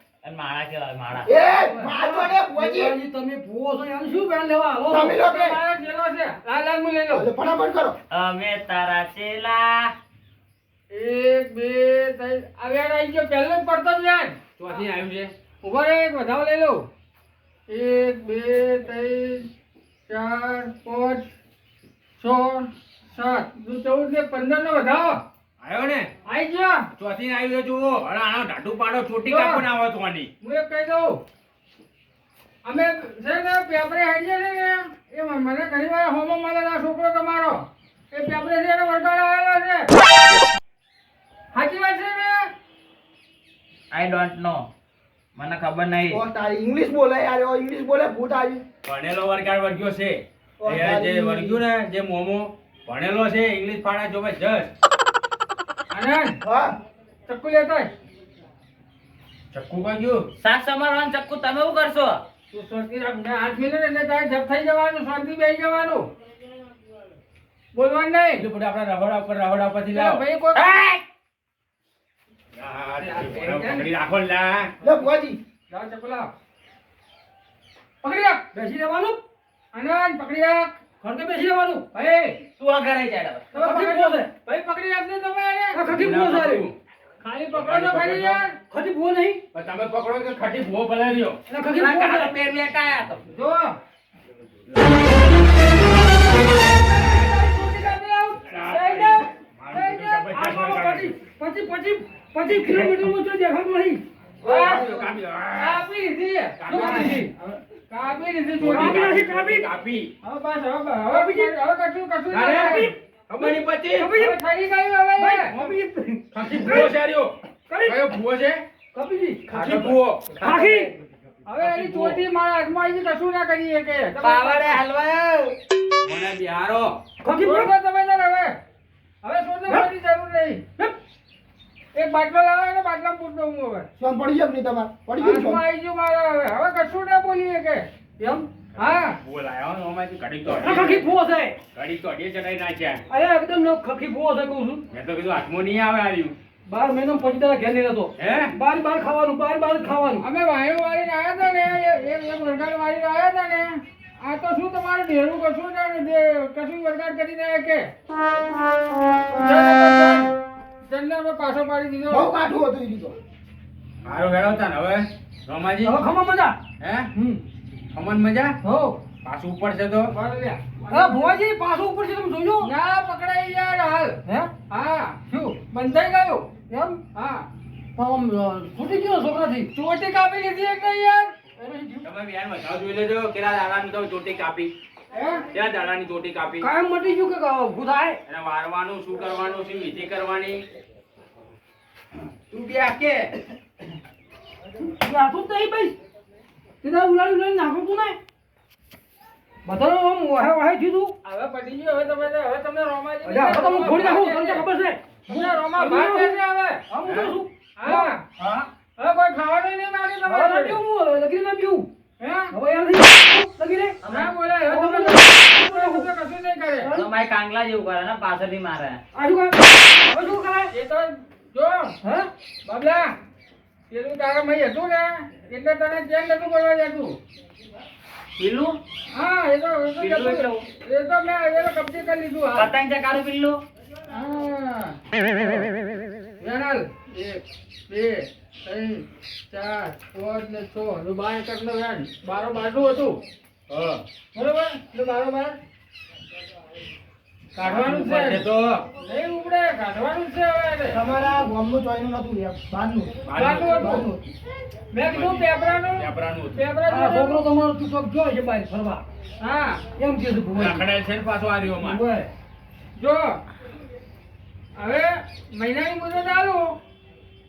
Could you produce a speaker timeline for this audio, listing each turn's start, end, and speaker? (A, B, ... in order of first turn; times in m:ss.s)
0:00.2-0:01.3 A
0:01.2-0:03.0 B
0:01.7-0:05.2 C
0:04.9-0:05.6 B
0:05.2-0:07.3 D
0:07.1-0:08.0 B
0:08.1-0:09.9 A
0:10.9-0:14.4 D
0:14.6-0:15.3 E
0:15.6-0:16.9 D
0:17.7-0:19.5 D
0:20.1-0:21.3 D
0:22.2-0:25.2 D
0:25.6-0:26.1 E
0:26.3-0:26.9 D
0:27.0-0:30.3 E
0:29.2-0:29.6 D
0:30.4-0:31.2 D
0:32.6-0:39.9 D
0:41.5-0:42.5 D
0:43.9-0:44.7 A
0:45.4-0:46.2 A
0:46.1-0:48.6 B
0:48.8-0:54.7 E
0:50.6-0:51.6 B
0:55.9-0:56.4 D
0:56.4-0:56.7 B
0:57.3-0:57.9 D
0:59.5-1:00.3 E
1:00.4-1:02.2 A
1:02.5-1:06.1 D
1:07.7-1:08.5 D
1:08.4-1:10.2 E
1:09.9-1:10.7 D
1:10.6-1:11.0 A
1:12.6-1:14.7 E
1:13.0-1:13.9 D
1:14.8-1:15.4 B
1:15.7-1:16.3 D
1:18.0-1:18.4 D
1:18.5-1:19.2 C
1:19.7-1:20.7 D
1:21.0-1:21.8 C
1:21.9-1:22.4 D
1:22.6-1:23.5 A
1:23.5-1:25.8 D
1:23.6-1:24.3 C
1:25.7-1:26.7 C
1:25.9-1:26.8 E
1:27.2-1:28.6 D
1:27.5-1:28.4 E
1:28.6-1:29.4 C
1:29.5-1:31.4 E
1:31.5-1:32.4 C
1:31.6-1:33.2 A
1:33.3-1:33.8 D
1:36.5-1:40.3 D
1:38.5-1:41.1 E
1:40.3-1:45.0 C
1:42.6-1:42.9 E
1:44.4-1:44.9 D
1:44.5-1:45.8 E
1:45.6-1:47.2 D
1:46.6-1:47.2 E
1:46.7-1:47.5 C
1:47.9-1:49.1 D
1:48.6-1:50.1 E
1:48.6-1:49.7 C
1:50.2-1:52.9 D
1:51.1-1:51.6 C
1:52.3-1:54.1 E
1:52.7-1:54.4 C
1:54.2-1:55.6 D
1:55.2-1:56.9 C
1:55.5-1:55.8 E
1:56.3-1:58.6 E
1:57.7-1:58.1 C
1:58.9-2:00.9 C
1:59.5-2:00.4 E
2:00.4-2:00.9 A
2:01.5-2:04.8 D
2:01.6-2:02.2 E
2:04.2-2:05.6 A
2:06.0-2:07.0 E
2:07.2-2:07.7 C
2:07.4-2:08.6 D
2:09.2-2:10.6 D
2:11.9-2:13.9 D
2:14.0-2:15.6 B
2:15.2-2:17.9 D
2:18.2-2:18.5 C
2:18.8-2:21.1 E
2:18.8-2:19.2 D
2:20.6-2:21.6 C
2:21.7-2:23.0 E
2:23.1-2:24.8 C
2:24.9-2:26.4 E
2:26.7-2:30.3 C
2:28.2-2:28.5 E
2:30.2-2:37.9 D
2:39.3-2:40.3 D
2:40.8-2:42.3 D
2:42.1-2:43.2 B
2:44.0-2:46.0 E
2:45.8-2:46.6 C
2:46.8-2:47.1 E
2:47.2-2:47.4 C
2:47.9-2:48.6 E
2:48.6-2:49.0 C
2:49.2-2:50.1 E
2:50.1-2:51.4 D
2:50.9-2:52.7 C
2:52.6-2:56.5 D
2:54.3-2:54.5 C
2:56.7-2:57.0 C
2:57.1-2:57.5 D
2:58.0-2:59.7 C
2:59.7-3:01.3 D
3:01.6-3:02.1 C
3:02.0-3:04.7 E
3:05.1-3:05.4 D
3:05.5-3:06.7 E
3:06.6-3:08.2 C
3:08.3-3:10.6 E
3:12.5-3:13.3 E
3:14.9-3:16.0 C
3:16.8-3:18.2 C
3:19.6-3:21.1 C
3:21.2-3:24.6 D
3:23.2-3:26.4 C
3:25.3-3:26.8 D
3:26.9-3:28.7 C
3:27.0-3:27.4 E
3:27.8-3:28.2 D
3:29.0-3:30.8 D
3:30.2-3:31.9 C
3:32.2-3:32.5 D
3:32.5-3:34.0 C
3:34.0-3:34.3 A
3:34.1-3:37.0 D
3:34.6-3:36.1 C
3:36.9-3:39.0 A
3:39.1-3:40.7 C
3:40.7-3:42.0 D
3:42.0-3:42.3 C
3:42.6-3:43.1 D
3:43.9-3:47.2 D
3:48.4-3:48.8 A
3:49.1-3:52.7 D
3:50.0-3:50.6 A
3:52.6-3:53.6 A
3:54.1-3:55.7 D
3:56.4-4:03.2 D
4:03.7-4:04.0 E
4:04.3-4:05.6 D
4:07.6-4:08.9 E
4:07.6-4:08.4 D
4:09.0-4:11.0 D
4:10.9-4:14.2 B
4:13.3-4:14.1 E
4:13.4-4:14.1 D
4:14.9-4:17.4 D
4:15.0-4:16.7 E
4:16.9-4:19.0 C
4:19.4-4:19.8 D
4:20.0-4:20.8 C
4:20.6-4:22.0 E
4:21.8-4:22.3 C
4:23.0-4:23.4 D
4:24.8-4:26.8 D